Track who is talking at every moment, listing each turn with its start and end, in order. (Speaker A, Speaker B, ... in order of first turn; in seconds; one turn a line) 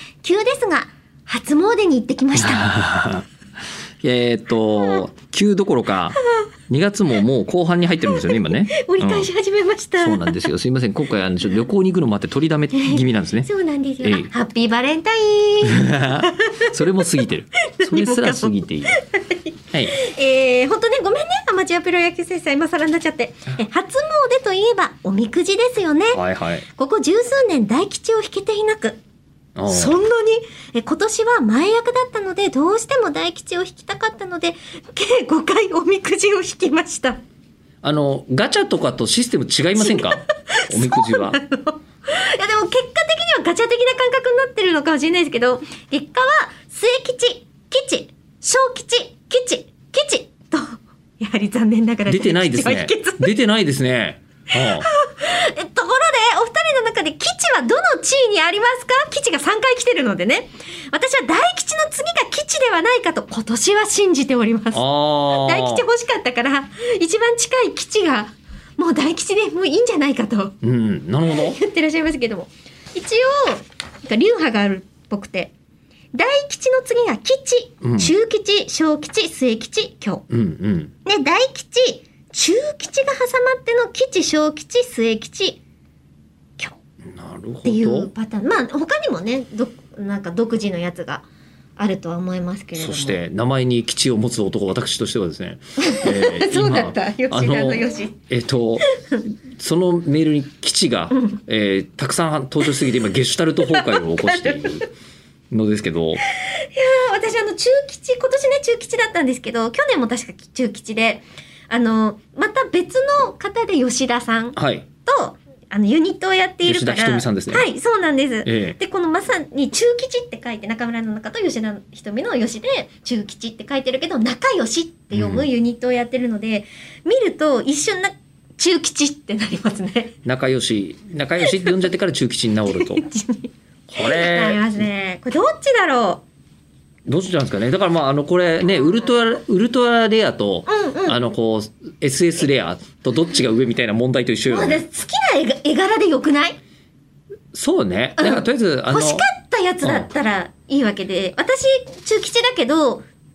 Speaker A: 0.2-2.7
Speaker B: 2.4-3.2
Speaker B: 4.0-6.2
Speaker B: 6.7-9.3
Speaker A: 8.1-10.5
Speaker B: 10.0-13.5
Speaker A: 12.7-29.0
Speaker B: 14.0-14.3
Speaker B: 15.6-19.0
Speaker B: 26.1-26.6
Speaker B: 29.6-30.0
Speaker A: 29.7-37.2
Speaker B: 37.8-41.4
Speaker A: 39.8-53.3
Speaker B: 52.0-54.9
Speaker A: 54.5-70.6
Speaker B: 64.7-65.8
Speaker B: 70.6-71.6
Speaker A: 71.3-75.5
Speaker A: 76.1-80.2
Speaker B: 77.8-78.1
Speaker B: 80.3-80.9
Speaker A: 81.0-85.6
Speaker B: 87.1-88.1
Speaker A: 87.6-91.2
Speaker A: 91.8-93.2
Speaker B: 92.8-104.9
Speaker A: 95.8-98.2
Speaker A: 101.1-101.4
Speaker A: 103.7-104.8
Speaker B: 105.5-106.2
Speaker A: 106.3-130.1
Speaker B: 114.5-114.9
Speaker B: 116.6-117.7
Speaker B: 118.4-118.8
Speaker B: 125.1-125.5
Speaker B: 130.2-133.0
Speaker A: 131.4-131.8
Speaker A: 132.7-136.2
Speaker B: 133.9-134.8
Speaker B: 137.1-144.8
Speaker A: 140.7-141.2
Speaker A: 144.5-146.6
Speaker B: 147.5-149.3
Speaker A: 148.2-153.1
Speaker B: 149.8-150.1